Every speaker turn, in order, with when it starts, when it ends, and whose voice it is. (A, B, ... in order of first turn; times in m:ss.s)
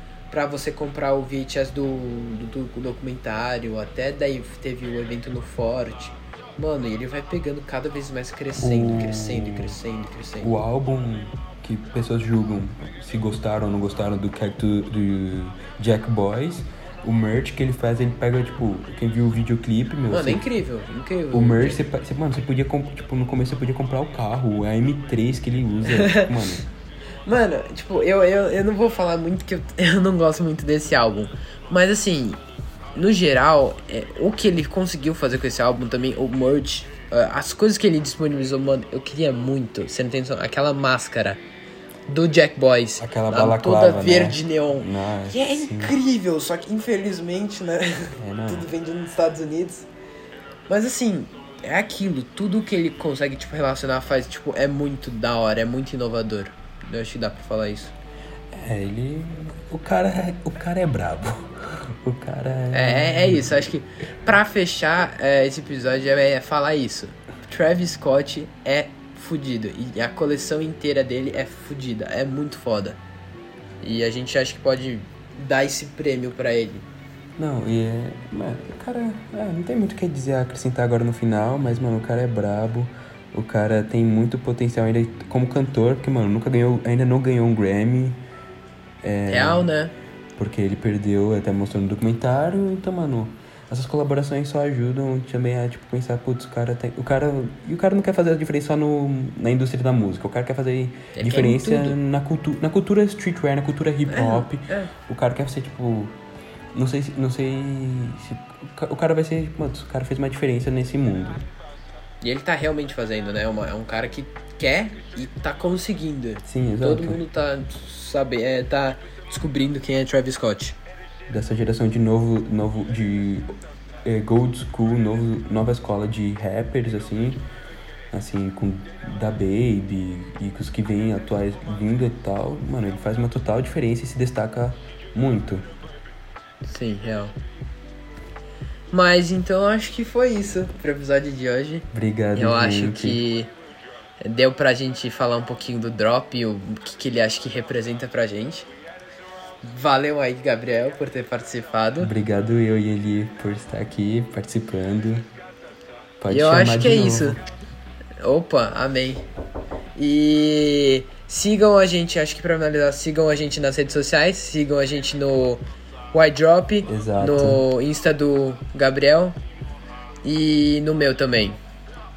0:00.3-0:10.6 A
0:08.6-0:09.8 B
0:10.4-0:20.4 B
0:20.1-0:21.8 A
0:21.3-0:26.6 B
0:25.9-0:26.4 A
0:27.3-0:32.4 A
0:32.9-0:41.4 A
0:42.1-0:49.9 A
0:43.0-0:45.9 B
0:48.2-0:48.7 B
0:50.7-0:57.9 A
0:58.5-1:03.6 B
1:02.7-1:13.0 A
1:13.8-1:16.9 A
1:17.4-1:28.2 B
1:29.0-1:29.7 B
1:29.3-1:29.9 A
1:30.4-1:46.1 B
1:41.1-1:42.0 A
1:44.1-1:44.9 A
1:46.7-1:51.4 B
1:52.2-2:00.8 A
1:56.4-1:57.2 B
2:01.3-2:03.5 B
2:04.0-2:07.4 B
2:08.1-2:15.6 B
2:16.6-2:17.3 A
2:18.9-2:23.5 A
2:21.9-2:23.2 B
2:24.2-2:28.7 A
2:29.6-2:32.1 A
2:32.0-2:35.3 B
2:36.2-2:37.4 B
2:36.3-2:37.4 A
2:38.2-2:39.2 A
2:40.0-2:49.4 A
2:46.9-2:47.6 B
2:50.2-2:51.6 A